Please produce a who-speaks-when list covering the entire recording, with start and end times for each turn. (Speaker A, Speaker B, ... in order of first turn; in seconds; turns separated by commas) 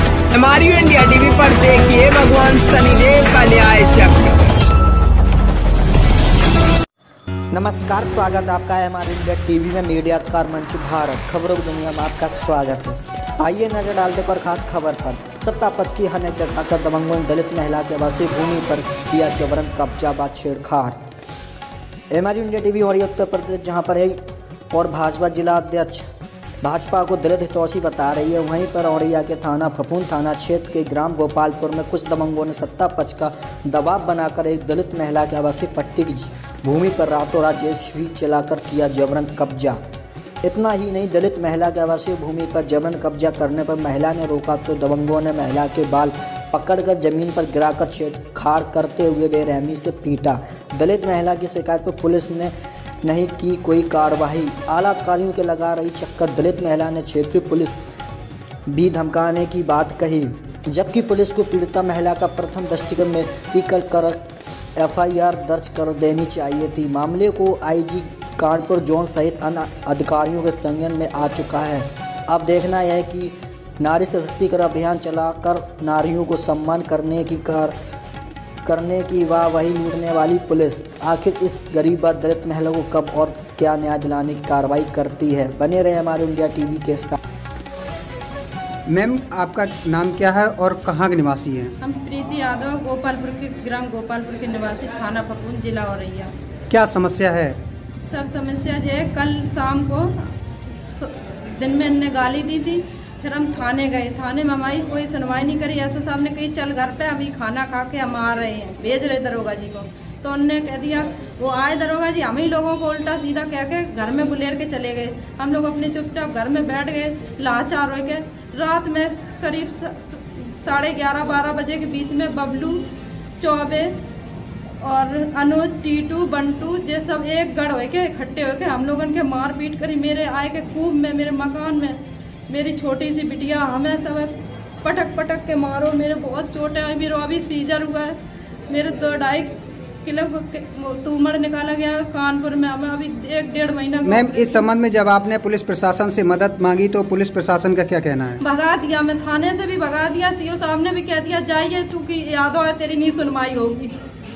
Speaker A: 0.3-4.4, Speaker B: 7.5-21.0, Speaker B: 22.1-24.2, Speaker B: 24.7-26.1, Speaker B: 26.6-39.8, Speaker B: 40.4-52.5, Speaker B: 53.0-57.8, Speaker B: 58.7-64.2, Speaker B: 64.8-77.7, Speaker B: 78.7-87.2, Speaker C: 88.9-91.7, Speaker D: 91.8-96.3, Speaker C: 96.7-97.6, Speaker D: 98.1-100.3, Speaker D: 100.9-122.8, Speaker D: 123.4-123.9, Speaker D: 124.8-134.3, Speaker D: 134.8-138.2, Speaker D: 138.7-144.7, Speaker C: 144.0-148.4, Speaker D: 148.4-153.9